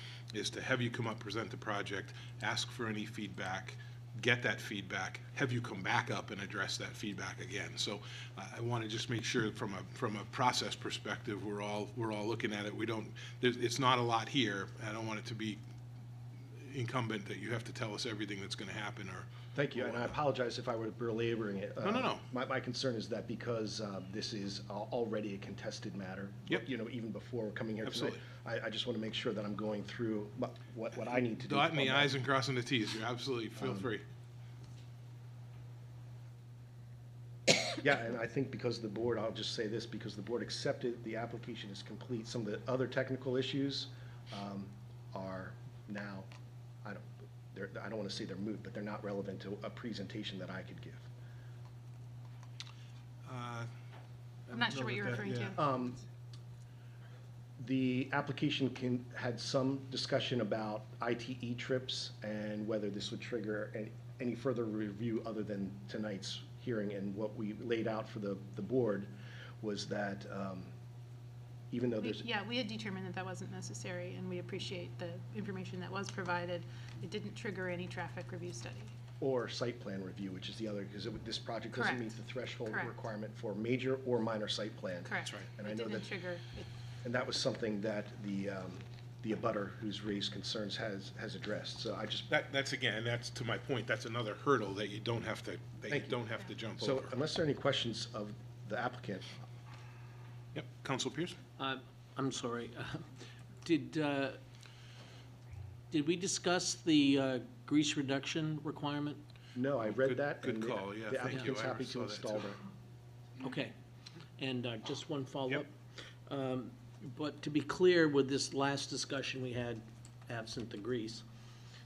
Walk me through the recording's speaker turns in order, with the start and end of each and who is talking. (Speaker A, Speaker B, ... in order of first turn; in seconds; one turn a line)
Speaker A: 0.3-15.6
Speaker A: 16.6-20.1
Speaker B: 19.5-32.1
Speaker A: 21.8-22.2
Speaker A: 27.8-28.2
Speaker A: 31.2-34.0
Speaker B: 33.6-33.9
Speaker B: 37.6-46.3
Speaker B: 46.8-51.0
Speaker A: 53.2-53.7
Speaker A: 54.5-55.6
Speaker C: 54.5-55.6
Speaker B: 55.5-56.0
Speaker B: 57.6-70.7
Speaker B: 71.7-72.3
Speaker C: 72.0-78.9
Speaker B: 79.2-86.1
Speaker C: 81.7-82.9
Speaker C: 85.0-86.7
Speaker B: 87.0-92.3
Speaker A: 92.3-97.1
Speaker B: 95.9-96.2
Speaker B: 96.8-99.4
Speaker A: 100.5-101.4
Speaker D: 101.6-103.0
Speaker D: 103.6-104.4
Speaker D: 105.9-109.2
Speaker B: 109.5-112.6
Speaker A: 109.8-112.5
Speaker D: 113.4-113.7
Speaker D: 114.4-115.7
Speaker D: 116.3-121.2